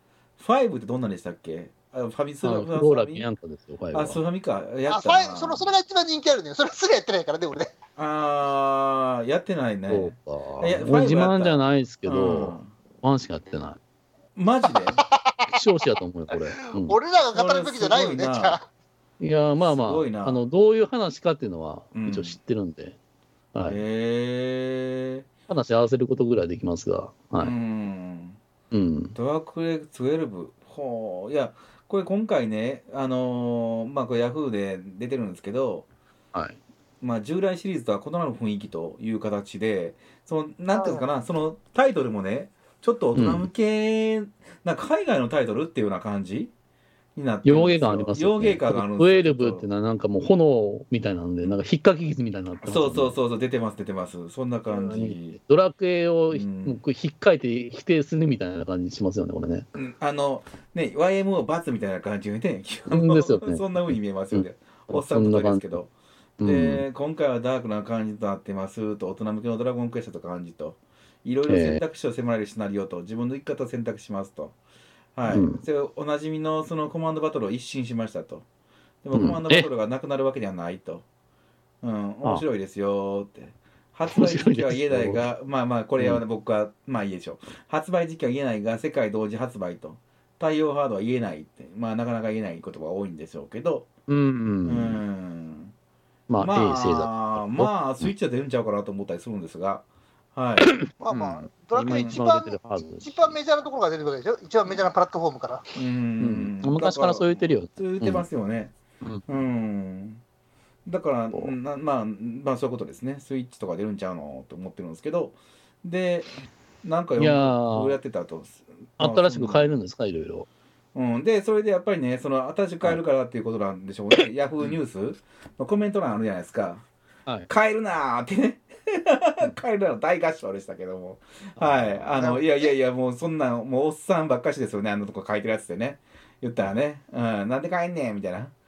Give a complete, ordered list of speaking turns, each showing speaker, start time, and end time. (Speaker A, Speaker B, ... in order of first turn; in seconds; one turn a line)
Speaker A: 0.4-3.3
Speaker B: 2.4-4.2
Speaker A: 3.9-5.6
Speaker C: 4.9-7.7
Speaker A: 8.0-12.7
Speaker B: 9.9-13.8
Speaker A: 14.3-15.0
Speaker C: 15.0-15.4
Speaker B: 15.5-17.0
Speaker C: 16.4-18.7
Speaker A: 17.3-18.6
Speaker B: 19.2-22.9
Speaker A: 19.6-20.4
Speaker A: 21.9-22.4
Speaker B: 23.5-23.8
Speaker A: 23.7-25.3
Speaker B: 25.5-27.5
Speaker A: 27.4-28.4
Speaker B: 28.7-29.1
Speaker A: 29.1-35.9
Speaker A: 37.0-46.5
Speaker C: 40.7-41.0
Speaker B: 43.1-43.5
Speaker A: 47.2-49.6
Speaker B: 47.5-53.2
Speaker A: 52.6-55.4
Speaker B: 54.7-59.7
Speaker A: 56.3-56.8
Speaker A: 59.7-65.9
Speaker B: 62.9-63.6
Speaker B: 64.3-65.7
Speaker B: 66.4-66.8
Speaker A: 66.4-74.5
Speaker B: 71.5-71.8
Speaker A: 75.1-78.5
Speaker B: 75.3-75.6
Speaker A: 79.0-81.0
Speaker B: 79.1-79.7
Speaker A: 81.8-93.9
Speaker B: 84.1-85.2
Speaker B: 94.1-95.0
Speaker A: 94.6-95.7
Speaker B: 96.3-98.1
Speaker A: 96.4-101.3
Speaker B: 100.6-103.4
Speaker C: 101.0-105.6
Speaker A: 101.8-102.2
Speaker A: 105.7-108.7
Speaker B: 106.2-108.2
Speaker A: 109.3-110.2
Speaker A: 110.9-119.7
Speaker B: 117.2-118.0
Speaker B: 119.0-120.5
Speaker A: 120.9-126.8
Speaker B: 124.2-124.7
Speaker A: 127.5-138.5
Speaker B: 131.6-132.1
Speaker C: 132.2-132.7